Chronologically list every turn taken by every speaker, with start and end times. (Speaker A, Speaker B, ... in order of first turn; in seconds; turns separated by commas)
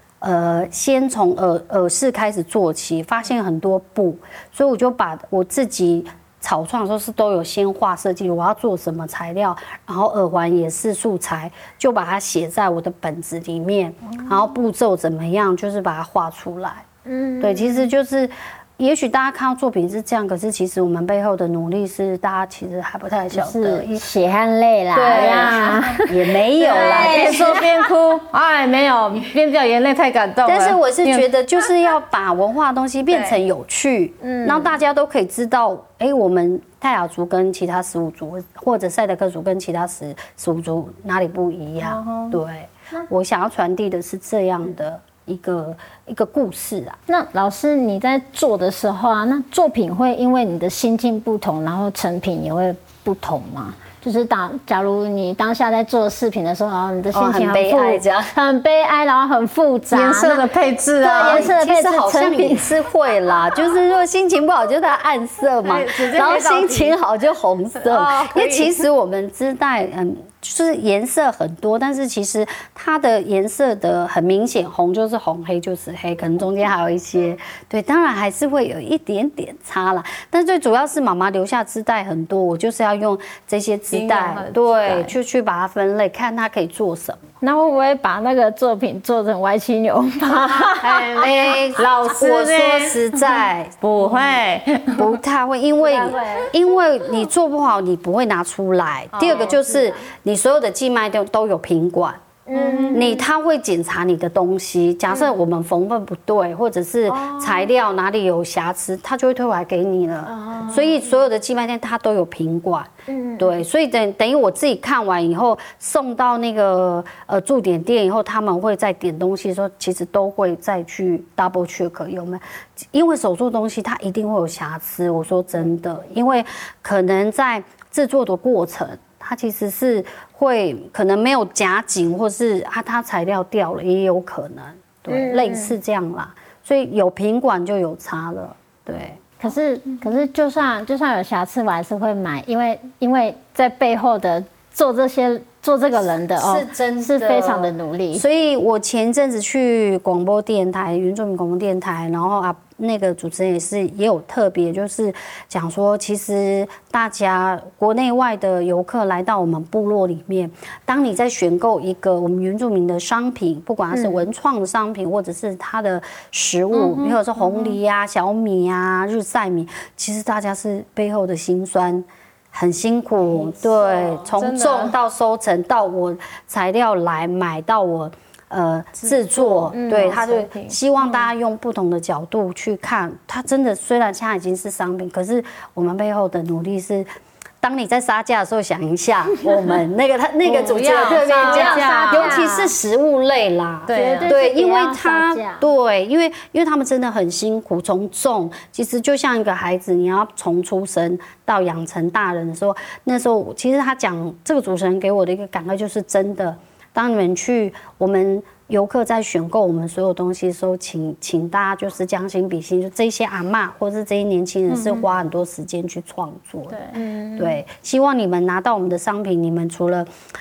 Speaker A: 0.2-16.9, Speaker B: 17.1-17.9, Speaker A: 17.4-24.1, Speaker B: 23.3-26.1, Speaker A: 24.9-27.6, Speaker C: 25.1-26.0, Speaker C: 26.6-31.3, Speaker B: 26.7-27.8, Speaker A: 30.4-47.0, Speaker C: 33.1-33.4, Speaker B: 34.2-34.7, Speaker C: 41.8-42.4, Speaker B: 47.1-60.5, Speaker A: 57.1-58.3, Speaker C: 59.9-61.5, Speaker A: 61.0-87.2, Speaker B: 61.0-62.7, Speaker C: 65.6-67.0, Speaker C: 67.8-68.8, Speaker C: 83.9-85.2, Speaker B: 87.4-91.1, Speaker A: 90.8-93.8, Speaker C: 90.8-95.2, Speaker A: 95.0-102.2, Speaker B: 95.8-96.5, Speaker B: 99.2-100.0, Speaker B: 102.5-103.1, Speaker C: 102.5-103.2, Speaker A: 102.9-139.2, Speaker B: 107.1-107.6, Speaker B: 110.2-111.0, Speaker B: 113.1-113.6, Speaker B: 135.1-135.8, Speaker B: 139.4-148.2, Speaker A: 146.4-187.1, Speaker B: 163.9-164.2, Speaker C: 166.7-167.8, Speaker C: 173.6-174.9, Speaker C: 179.0-181.3, Speaker B: 179.7-180.2, Speaker A: 187.6-220.1, Speaker C: 190.4-192.4, Speaker B: 190.9-192.7, Speaker C: 193.9-194.3, Speaker B: 193.9-195.6, Speaker C: 214.7-215.1, Speaker C: 216.7-216.9, Speaker B: 216.9-217.6